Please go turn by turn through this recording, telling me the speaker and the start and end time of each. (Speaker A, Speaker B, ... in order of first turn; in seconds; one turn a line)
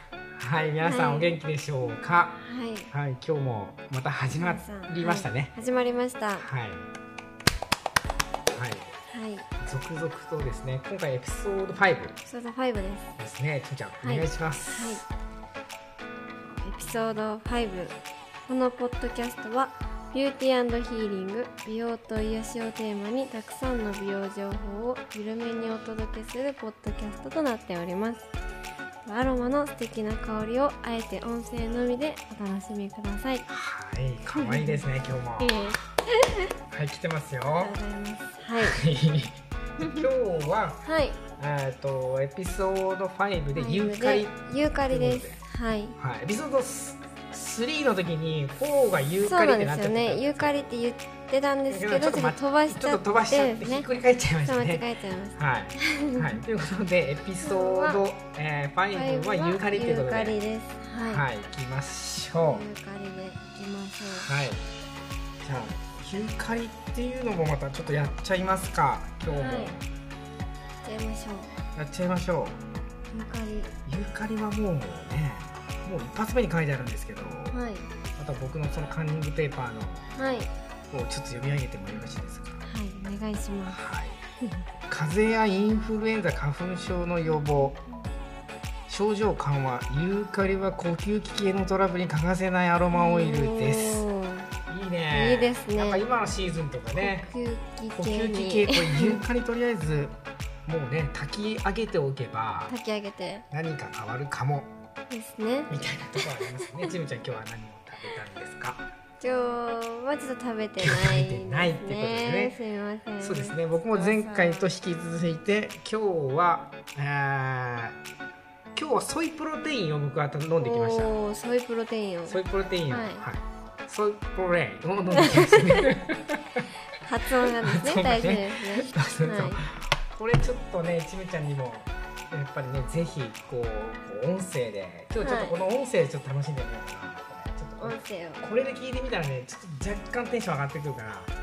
Speaker A: 0.4-2.4
Speaker B: 0.8-1.4
Speaker B: 2.3-2.9
Speaker A: 2.9-5.6
Speaker B: 4.3-6.5
Speaker A: 6.4-6.9
Speaker A: 8.5-8.9
Speaker B: 9.1-9.5
Speaker A: 9.6-12.2
Speaker B: 12.3-13.2
Speaker A: 13.2-15.1
Speaker B: 14.0-15.1
Speaker B: 16.4-28.3
Speaker B: 29.1-33.5
Speaker A: 33.5-35.7
Speaker B: 34.4-34.9
Speaker B: 35.4-36.5
Speaker A: 36.7-37.8
Speaker B: 37.6-38.8
Speaker A: 38.6-45.4
Speaker B: 40.8-41.2
Speaker B: 43.5-46.0
Speaker A: 46.0-50.8
Speaker B: 49.2-53.9
Speaker A: 51.7-54.9
Speaker B: 54.4-56.4
Speaker A: 55.4-60.4
Speaker B: 57.4-58.0
Speaker B: 58.9-61.3
Speaker A: 61.1-62.6
Speaker B: 62.5-64.3
Speaker A: 64.0-64.7
Speaker A: 65.4-69.9
Speaker B: 69.3-69.8
Speaker B: 70.8-71.6
Speaker A: 71.8-72.6
Speaker B: 73.1-73.8
Speaker A: 73.8-77.6
Speaker B: 77.5-77.9
Speaker A: 78.2-80.1
Speaker B: 80.1-80.5
Speaker A: 80.9-82.7
Speaker B: 82.7-83.8
Speaker A: 83.7-84.2
Speaker A: 84.9-87.8
Speaker B: 87.3-88.1
Speaker A: 88.9-94.1
Speaker B: 92.9-94.5
Speaker A: 94.7-97.3
Speaker B: 95.1-96.0
Speaker B: 97.0-99.2
Speaker A: 98.0-102.8
Speaker B: 102.7-103.5
Speaker A: 103.5-104.7
Speaker B: 105.1-106.9
Speaker A: 105.7-108.9
Speaker B: 109.2-114.7
Speaker A: 110.8-112.6
Speaker A: 113.2-118.0
Speaker A: 118.7-121.2
Speaker B: 120.6-123.2
Speaker A: 122.3-126.6
Speaker B: 125.2-125.8
Speaker B: 127.0-129.6
Speaker A: 127.6-141.3
Speaker B: 135.2-135.6
Speaker B: 137.8-138.4